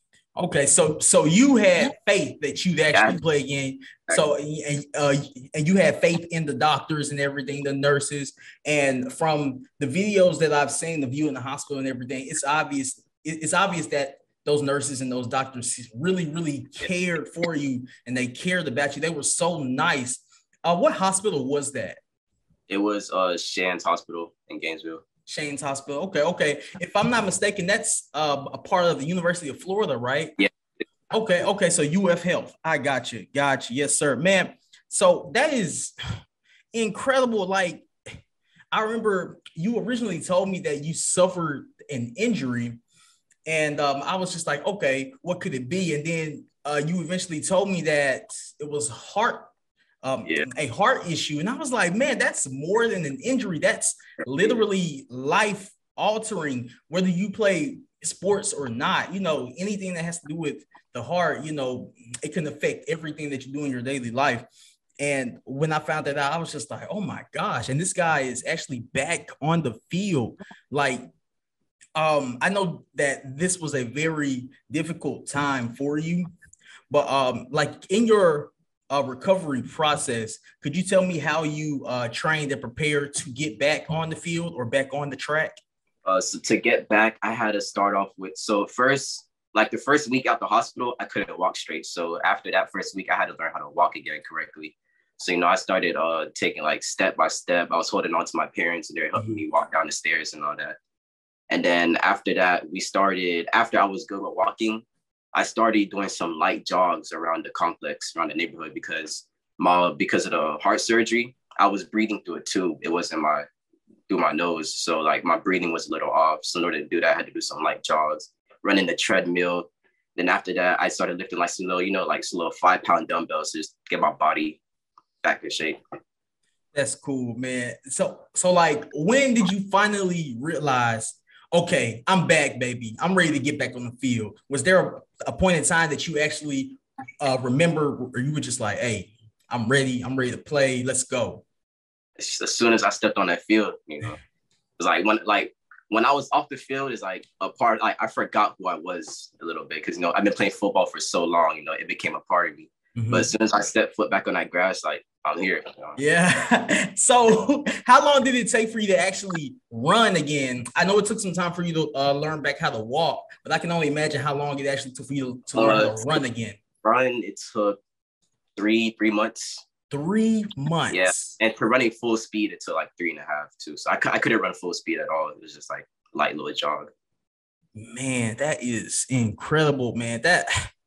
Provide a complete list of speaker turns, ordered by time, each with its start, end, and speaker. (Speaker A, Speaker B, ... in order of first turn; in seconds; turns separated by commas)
Speaker A: 0.4-22.0, Speaker B: 22.7-25.0, Speaker A: 25.3-30.4, Speaker A: 31.1-35.9, Speaker A: 36.7-37.9, Speaker A: 38.7-42.8, Speaker A: 43.5-49.5, Speaker A: 50.0-64.5, Speaker A: 65.0-71.1, Speaker A: 72.0-76.3, Speaker A: 76.9-85.6, Speaker B: 86.0-100.8, Speaker A: 99.2-99.4, Speaker B: 101.5-113.5, Speaker B: 114.1-124.6, Speaker B: 125.2-125.8, Speaker A: 126.7-141.4, Speaker B: 142.2-144.2, Speaker B: 144.8-156.0, Speaker A: 153.0-153.3, Speaker A: 156.0-166.6, Speaker B: 165.6-166.2, Speaker B: 166.8-167.8, Speaker B: 168.6-169.6, Speaker A: 169.9-171.3, Speaker B: 170.9-176.9, Speaker A: 177.8-180.7